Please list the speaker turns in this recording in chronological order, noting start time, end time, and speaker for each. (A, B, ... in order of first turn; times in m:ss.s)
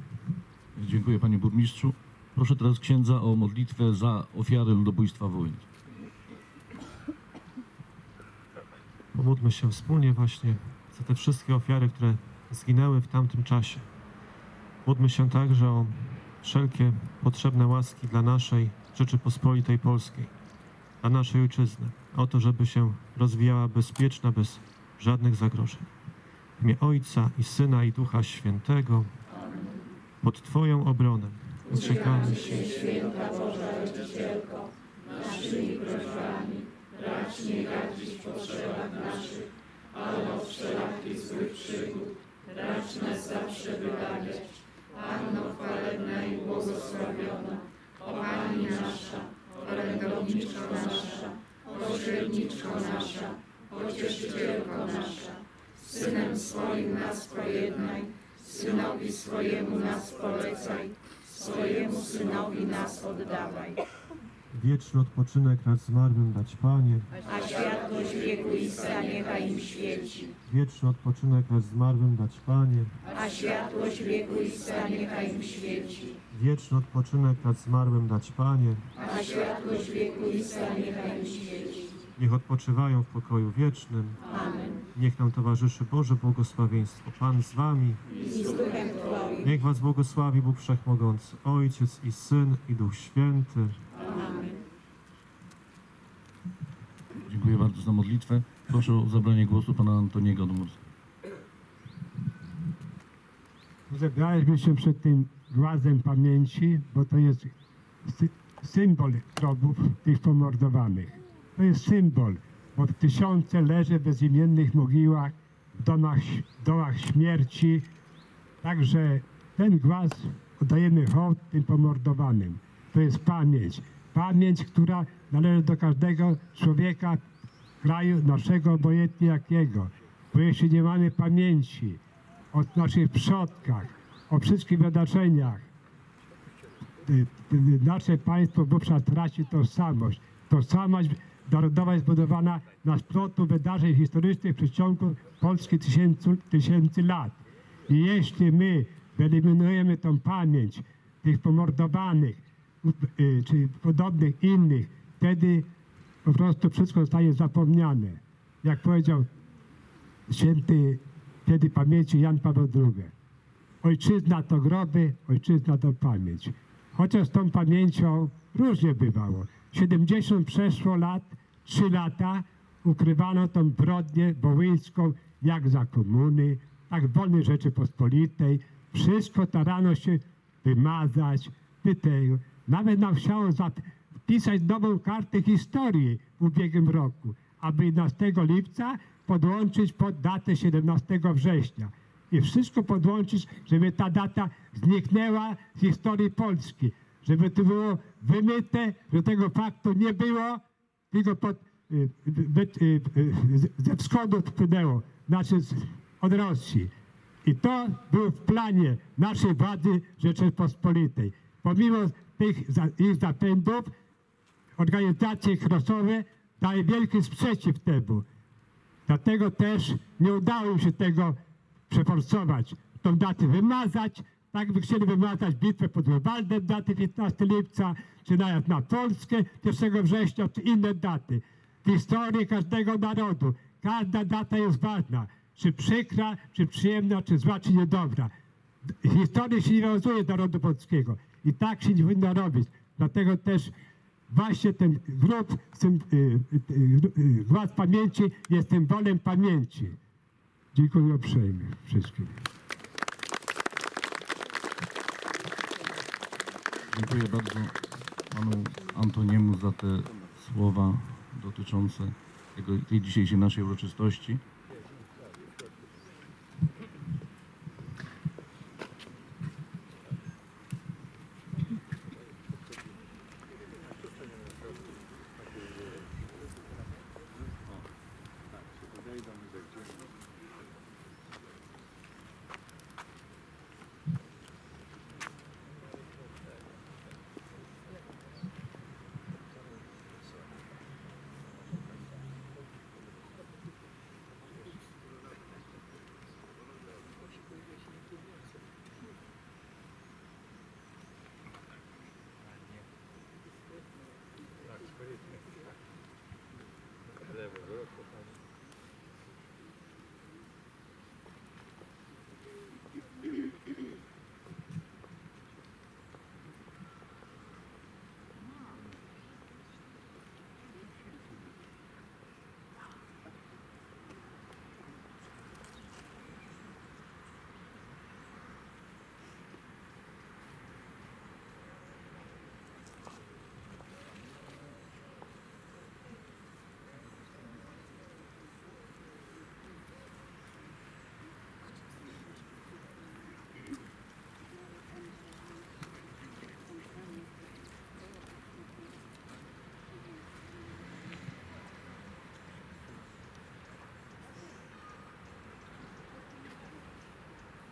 0:00.8-0:05.7 A
0:09.1-0:13.9 B
0:14.8-0:20.3 B
0:21.0-0:25.9 B
0:26.6-0:29.1 B
0:30.2-0:33.3 B
0:59.4-1:00.0 C
1:01.8-1:02.4 C
1:04.5-1:07.7 B
1:08.6-1:10.0 C
1:10.5-1:13.3 B
1:13.8-1:15.8 C
1:16.3-1:19.2 B
1:19.8-1:21.4 C
1:22.2-1:24.2 B
1:24.9-1:33.8 B
1:37.3-1:40.8 A
1:43.9-1:47.5 D
1:48.0-1:57.9 D
1:58.6-2:07.2 D
2:07.8-2:12.0 D
2:12.5-2:15.7 D
2:17.0-2:27.4 D
2:27.9-2:35.7 D
2:36.2-2:39.3 D
2:40.3-2:43.1 D
2:43.8-3:20.6 D
3:21.1-3:26.9 D
3:27.4-3:33.9 D
3:34.8-3:38.3 D
3:39.1-3:41.4 D
3:41.9-3:58.3 D
3:58.9-4:03.7 D
4:04.3-4:10.0 D
4:10.7-4:12.4 D
4:16.9-4:17.8 A
4:18.3-4:24.4 A